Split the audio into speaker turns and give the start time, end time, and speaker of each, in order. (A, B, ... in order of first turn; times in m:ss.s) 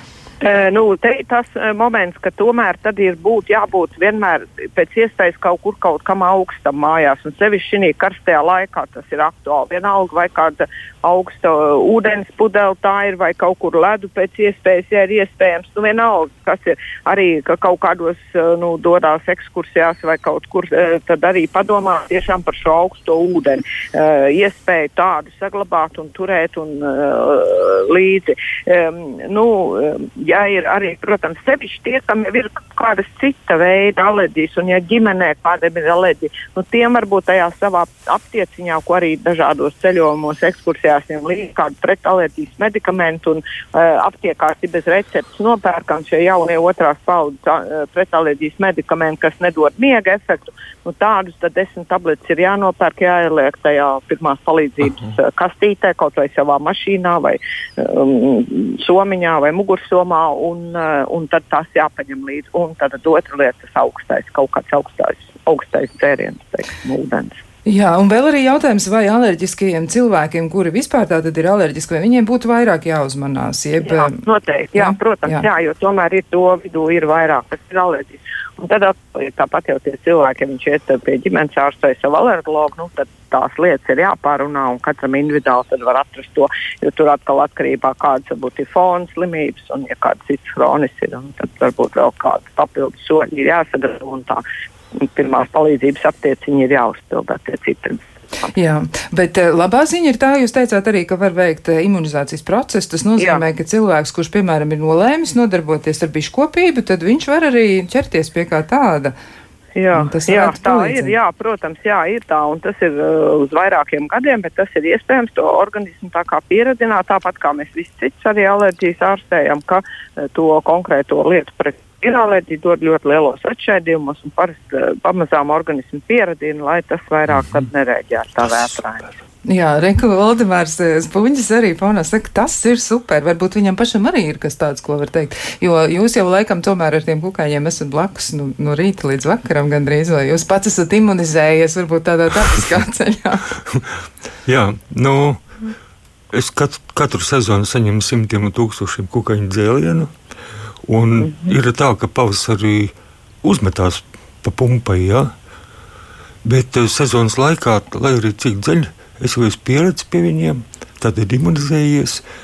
0:00.4-1:07.4 A
1:07.6-1:14.2 B
1:13.8-1:34.4 A
1:14.7-1:15.4 B
1:35.0-1:38.0 A
1:38.5-1:49.2 B
1:43.2-1:43.4 A
1:49.8-2:09.1 A
1:49.9-1:51.1 B
2:09.4-2:23.5 B
2:24.4-2:25.4 C
2:26.3-2:30.1 C
2:30.9-2:35.3 C
2:31.2-2:31.5 A
2:36.4-2:42.2 C